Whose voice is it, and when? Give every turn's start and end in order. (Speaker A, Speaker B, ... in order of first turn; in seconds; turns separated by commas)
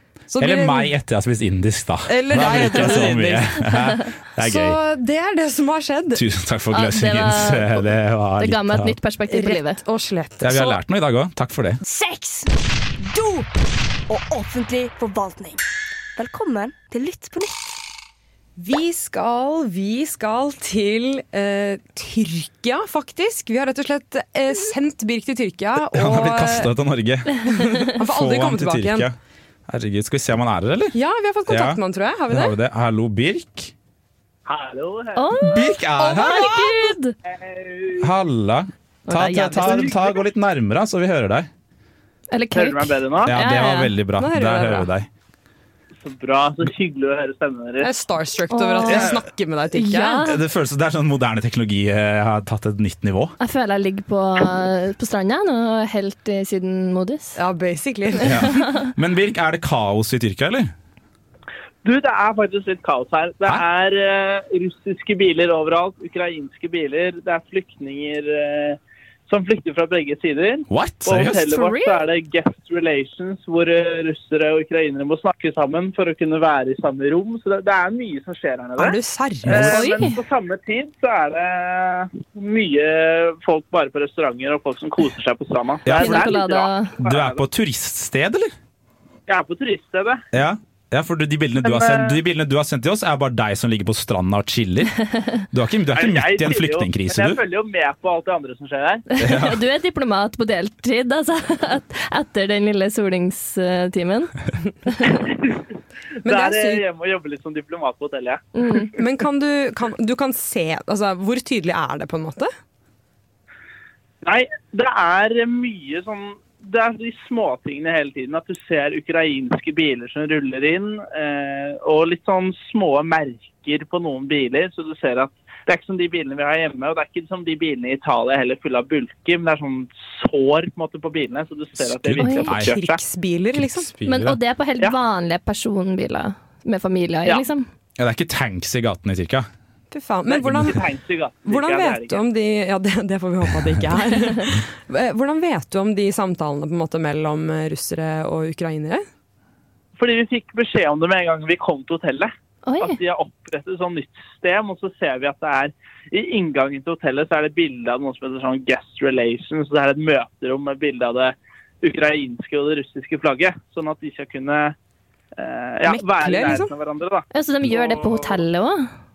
Speaker A: 0.3-0.9, Speaker B: 0.4-4.8, Speaker A: 2.1-3.7, Speaker A: 4.4-6.2, Speaker B: 6.1-9.0, Speaker C: 6.7-7.9, Speaker C: 8.4-9.8, Speaker A: 9.3-10.7, Speaker B: 10.4-11.8, Speaker D: 11.8-13.5, Speaker D: 14.1-15.6, Speaker D: 16.1-17.8, Speaker A: 18.6-26.7, Speaker B: 25.8-29.1, Speaker A: 27.5-29.1, Speaker B: 29.7-33.7, Speaker A: 30.9-32.5, Speaker E: 34.5-35.4, Speaker C: 35.1-37.1, Speaker B: 35.4-36.9, Speaker E: 37.3-38.1, Speaker B: 38.0-41.5, Speaker C: 39.1-39.9, Speaker E: 39.6-39.9, Speaker C: 42.3-43.9, Speaker E: 42.5-43.3, Speaker B: 43.2-45.1, Speaker A: 44.2-44.9, Speaker E: 46.0-47.9, Speaker A: 47.8-50.3, Speaker C: 48.5-49.1, Speaker B: 48.8-49.2, Speaker C: 49.7-50.4, Speaker B: 50.2-53.4, Speaker C: 53.4-57.4, Speaker A: 57.4-58.6, Speaker B: 58.2-60.7, Speaker E: 61.8-87.4, Speaker B: 70.7-71.5, Speaker C: 71.5-72.0, Speaker A: 78.8-80.0, Speaker C: 79.5-80.1, Speaker B: 85.8-86.3, Speaker C: 86.0-86.9, Speaker B: 87.0-88.5, Speaker E: 89.3-90.2, Speaker B: 90.3-94.9, Speaker E: 91.6-92.2, Speaker B: 95.5-97.4, Speaker E: 95.9-99.0, Speaker C: 99.1-104.3, Speaker B: 99.2-99.6, Speaker C: 104.9-105.2, Speaker E: 105.3-105.5, Speaker A: 106.2-106.8, Speaker E: 106.2-108.4, Speaker C: 108.5-108.9, Speaker A: 108.9-112.5, Speaker E: 114.2-133.0, Speaker B: 131.8-132.8, Speaker C: 132.2-132.5, Speaker A: 132.6-133.9, Speaker B: 133.5-134.4, Speaker C: 134.0-137.7, Speaker B: 138.0-139.5, Speaker A: 139.9-140.8, Speaker E: 140.3-142.2, Speaker A: 141.4-149.0, Speaker E: 150.0-164.7, Speaker C: 152.7-153.0, Speaker E: 165.4-168.4, Speaker A: 165.8-166.7, Speaker C: 167.3-168.9